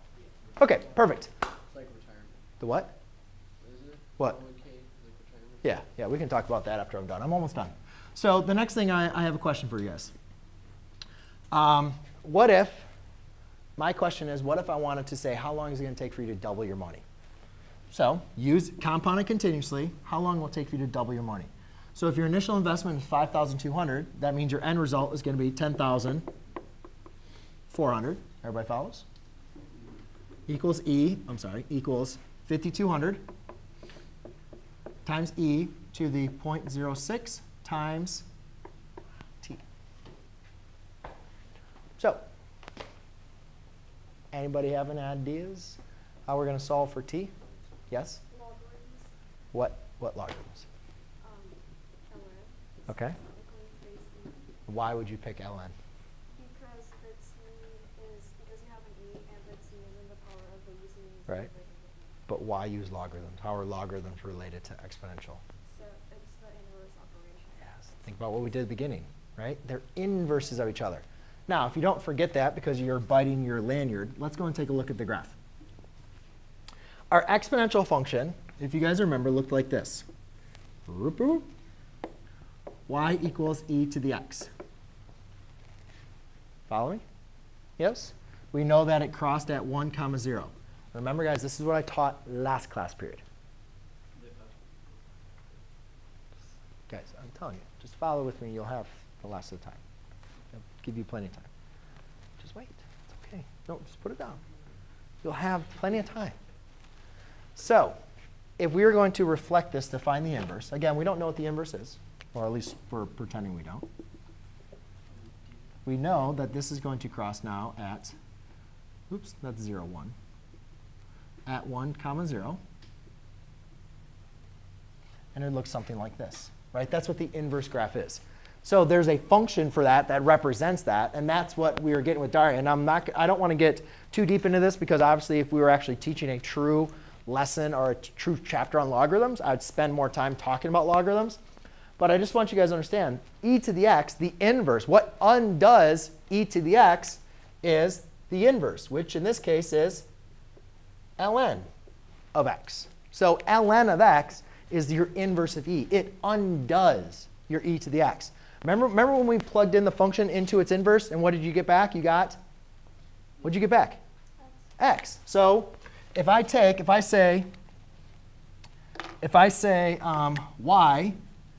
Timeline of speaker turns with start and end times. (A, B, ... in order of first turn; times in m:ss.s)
0:00.6-0:01.3 A
0:01.6-0:02.4 B
0:02.6-0:03.0 A
0:03.6-0:05.7 B
0:05.6-0:10.1 A
0:11.5-0:12.9 A
0:13.8-0:17.0 A
0:17.9-0:26.2 A
0:27.7-0:29.0 A
0:30.5-0:33.2 A
0:35.0-0:38.2 A
0:42.0-0:42.2 A
0:44.3-0:47.3 A
0:47.9-0:48.2 A
0:48.3-0:49.1 C
0:49.5-0:50.7 A
0:51.2-0:54.5 C
0:52.9-0:53.2 A
0:54.7-0:55.7 A
0:56.3-1:02.2 C
1:02.3-1:05.4 A
1:05.6-1:07.8 C
1:07.6-1:15.4 A
1:17.1-1:20.0 A
1:20.9-1:21.5 A
1:22.9-1:24.5 A
1:26.7-1:27.0 A
1:27.8-1:33.2 A
1:34.2-1:34.7 B
1:36.9-1:39.8 A
1:40.5-1:41.5 A
1:42.4-1:44.4 A
1:45.2-1:46.4 A
1:47.6-1:48.0 A
1:48.6-1:53.8 A
1:55.8-1:58.1 A
1:59.1-2:00.1 A
2:01.4-2:02.6 A
2:05.3-2:21.4 A
2:22.0-2:30.1 A
2:31.2-2:31.6 A
2:32.3-2:42.4 A
2:43.4-2:44.0 A
2:44.8-2:47.5 A
2:49.2-2:51.2 A